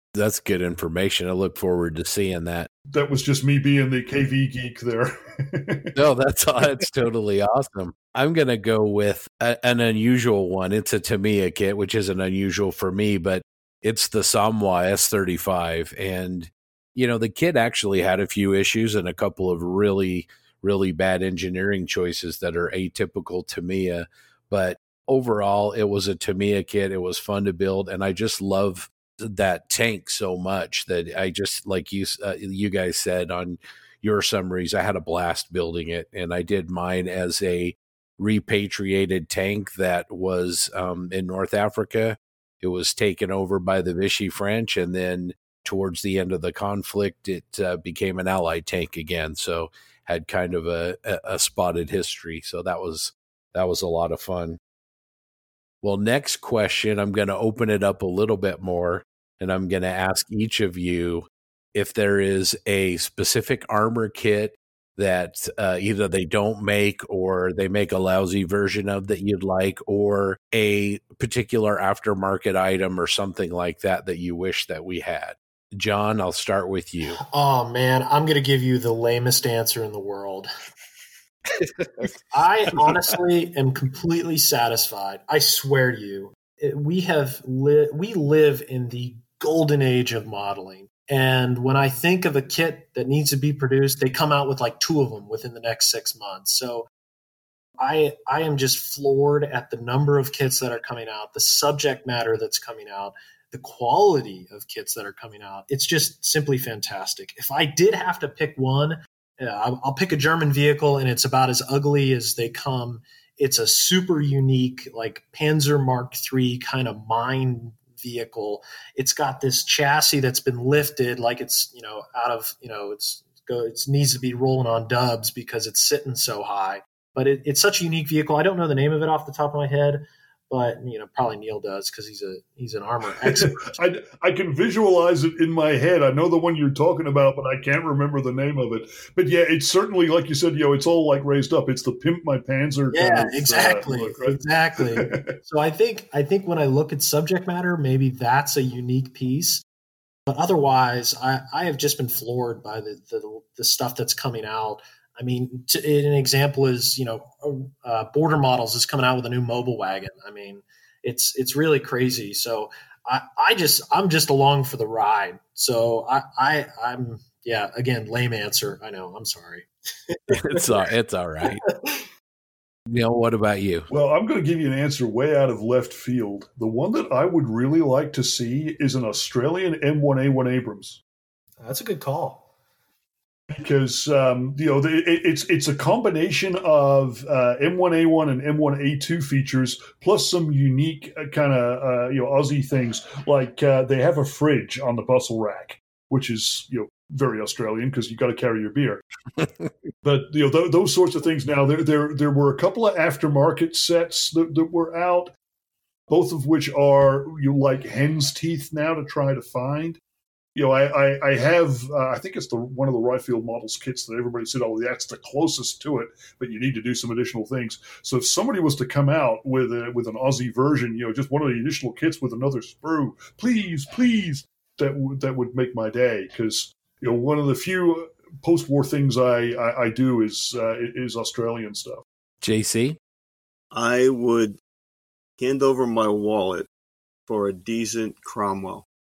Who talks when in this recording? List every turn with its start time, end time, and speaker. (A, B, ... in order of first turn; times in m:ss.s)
0:00.2-0:02.7 A
0:02.9-0:06.0 B
0:06.0-0:54.6 A
0:55.8-1:17.2 A
1:17.1-1:20.5 C
1:22.3-1:36.9 C
1:37.8-2:13.7 C
2:13.2-2:25.3 B
2:22.9-2:29.6 C
2:30.3-2:50.8 C
2:50.3-2:51.6 A
2:51.5-2:52.0 C
2:52.9-2:53.9 A
2:53.9-3:01.0 B
3:01.6-3:02.4 C
3:03.5-3:19.0 B
3:20.0-3:25.3 B
3:26.1-3:30.0 B
3:30.6-3:52.0 B
3:52.4-3:53.0 A
3:53.7-3:54.6 D
3:55.4-3:56.7 D
3:57.3-3:58.9 D